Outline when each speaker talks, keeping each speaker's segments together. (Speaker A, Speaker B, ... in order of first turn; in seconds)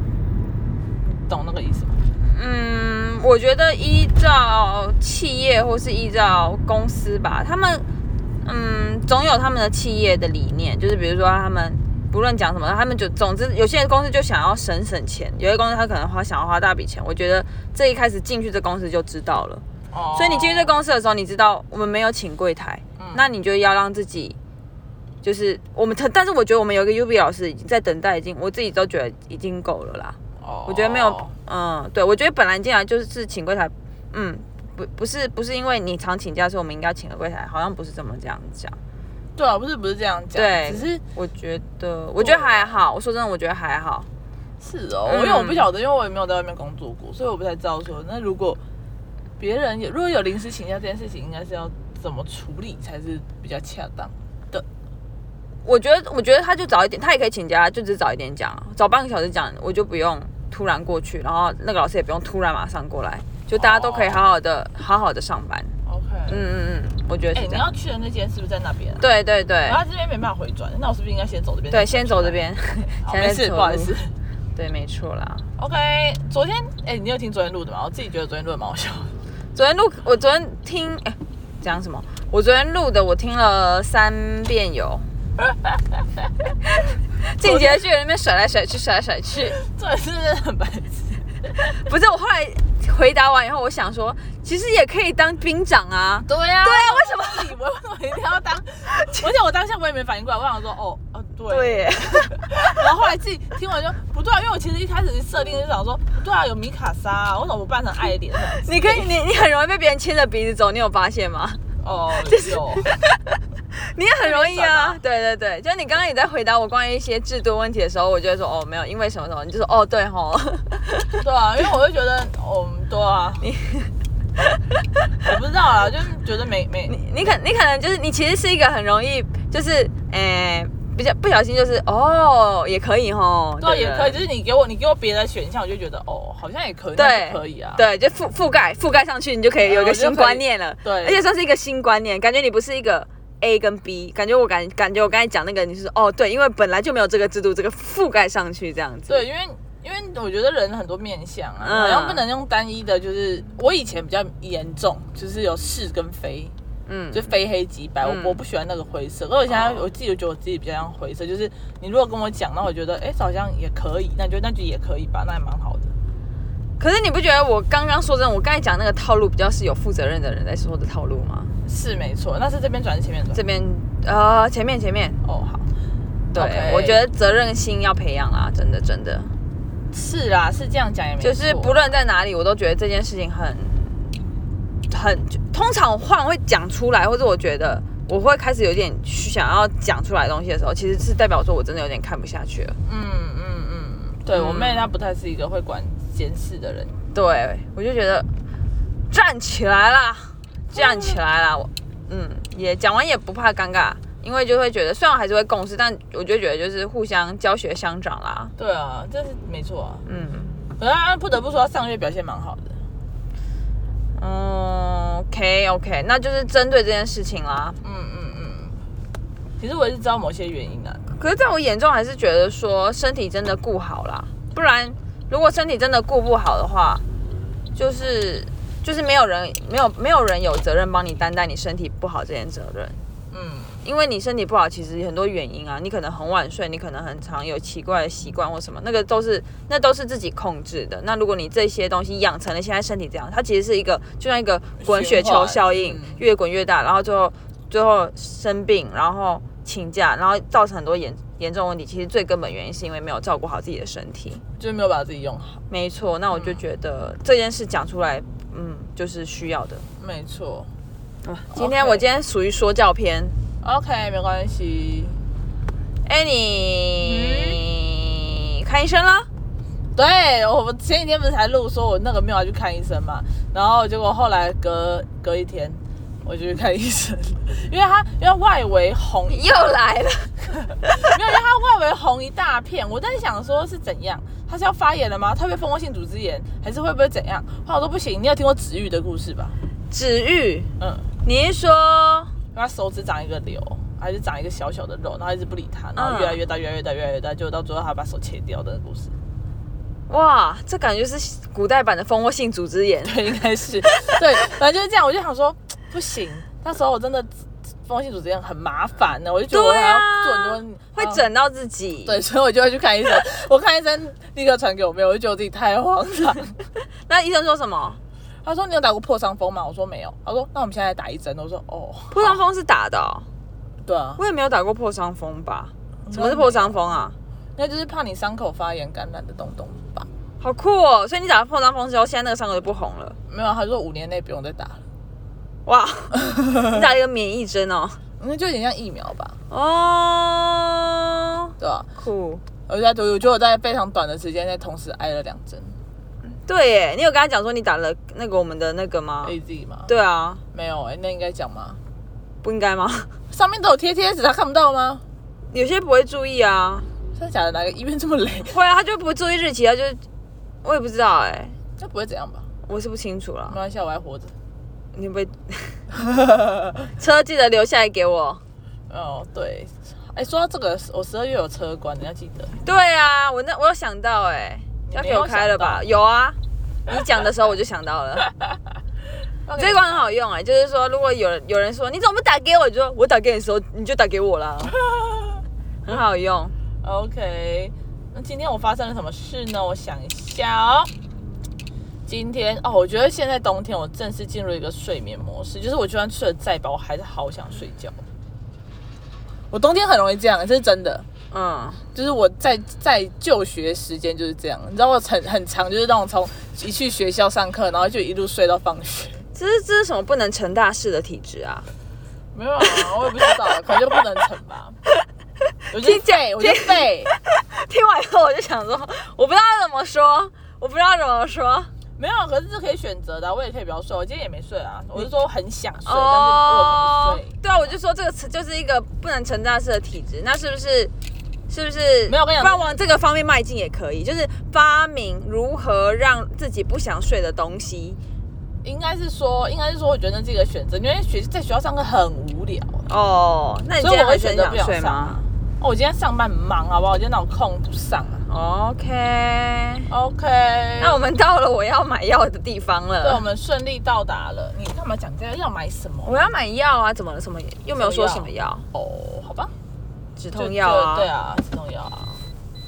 Speaker A: 1.0-2.0, 19.9-20.7, 23.0-23.2, 30.4-31.3, 39.4-41.0, 42.2-42.8, 44.6-48.6, 49.4-54.6, 63.5-64.2, 65.8-66.4, 67.3-69.0, 69.7-74.1, 75.6-79.2, 85.4-86.5, 87.4-87.8, 89.5-91.3, 96.2-109.1, 111.8-112.9, 114.2-115.0, 121.2-123.5, 125.2-127.3, 133.6-137.8, 139.6-141.2, 149.1-156.5, 157.1-165.9, 171.6-173.4, 175.2-175.7, 176.3-177.0, 179.9-181.9, 192.8-197.0, 200.7-201.2, 208.6-210.0, 210.8-212.8, 217.8-218.8, 219.6-221.1, 233.3-233.8, 244.8-246.2, 254.6-255.6, 256.3-256.6, 260.0-260.7, 261.5-262.0, 263.6-265.2, 267.0-267.6, 269.9-279.7, 281.0-289.6, 290.8-291.1, 292.5-299.1, 303.1-307.3, 307.9-311.2, 312.0-316.6, 318.4-322.4, 323.8-324.2, 326.1-326.8, 327.6-330.1, 333.3-334.8, 338.2-339.4, 341.6-341.9, 342.7-345.8, 349.2-349.9, 350.5-351.8, 353.3-355.0, 357.1-358.6, 361.8-362.4, 363.5-364.3, 368.9-372.6, 374.9-375.8, 379.4-380.1, 384.7-385.4, 386.8-390.9, 392.1-398.0, 399.5-401.1, 401.9-409.2, 412.3-414.8, 415.7-417.1, 422.0-427.7, 432.1-432.7, 438.6-442.9, 443.8-448.2, 449.9-451.0, 453.0-456.3, 457.7-459.5, 460.3-462.2
Speaker B: 2.2-7.8, 8.4-24.4, 25.2-38.8, 40.3-44.1, 45.1-45.7, 55.6-65.7, 66.3-67.6, 69.0-69.8, 71.7-73.9, 74.5-75.5, 79.5-85.1, 86.7-89.5, 91.5-97.5, 99.0-99.3, 101.5-102.8, 108.5-111.6, 112.2-121.2, 123.4-124.6, 126.9-134.2, 136.9-149.2, 151.6-152.2, 156.8-157.3, 158.0-158.4, 159.5-159.8, 166.8-171.5, 173.3-175.2, 176.3-179.3, 181.2-183.9, 184.9-192.8, 194.3-194.9, 197.1-198.3, 199.1-208.5, 210.1-210.6, 214.2-217.8, 221.1-227.0, 227.7-233.0, 233.8-254.4, 255.7-259.8, 261.2-263.4, 266.0-269.3, 279.3-281.1, 289.9-290.7, 291.2-292.3, 295.9-296.4, 300.1-303.2, 309.5-312.2, 317.0-318.0, 322.1-323.3, 324.2-327.1, 330.4-333.2, 335.6-338.0, 339.5-342.4, 346.3-349.4, 349.9-350.4, 352.4-353.1, 355.5-356.9, 358.5-360.0, 360.6-361.6, 362.6-363.6, 364.9-365.9, 366.8-368.4, 372.6-378.3, 379.6-384.8, 385.8-386.5, 401.3-401.8, 409.3-411.7, 415.7-421.7, 425.9-430.9, 431.5-438.0, 442.9-445.2, 448.3-449.9, 450.8-453.2, 456.0-458.7, 460.2-461.1